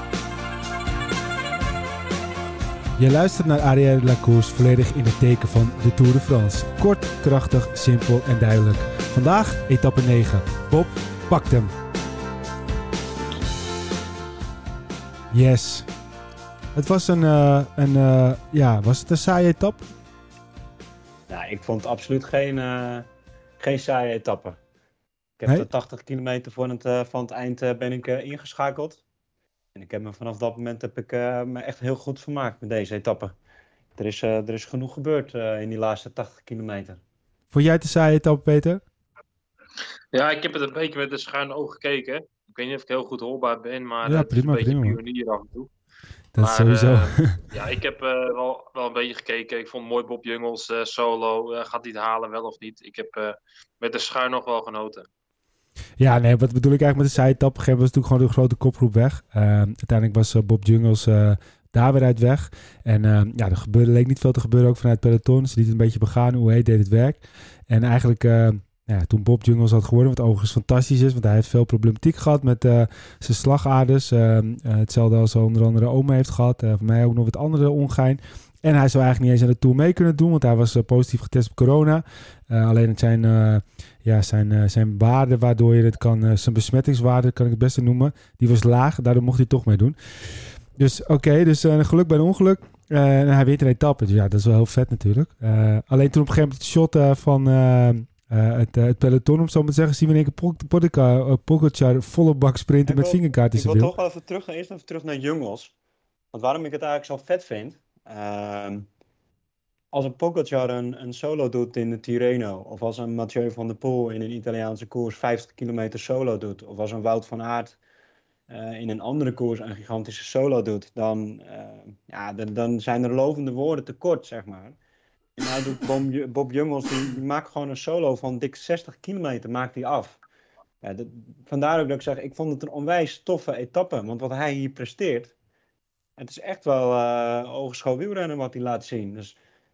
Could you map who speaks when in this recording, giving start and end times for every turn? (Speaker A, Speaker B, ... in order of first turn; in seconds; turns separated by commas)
Speaker A: 3.0-11.7, Speaker A: 15.3-15.9, Speaker A: 16.7-19.9, Speaker B: 21.3-23.1, Speaker B: 23.6-24.6, Speaker B: 25.4-29.0, Speaker B: 29.7-33.3, Speaker B: 34.0-37.0, Speaker A: 37.5-38.8, Speaker C: 40.1-45.7, Speaker A: 44.0-45.0, Speaker A: 46.3-47.4, Speaker C: 46.4-55.1, Speaker A: 56.0-90.0, Speaker A: 90.8-103.9, Speaker B: 102.8-105.7, Speaker B: 106.3-108.9, Speaker B: 109.9-117.8, Speaker B: 118.5-124.8, Speaker B: 125.4-130.2, Speaker B: 130.8-135.3, Speaker B: 136.2-139.3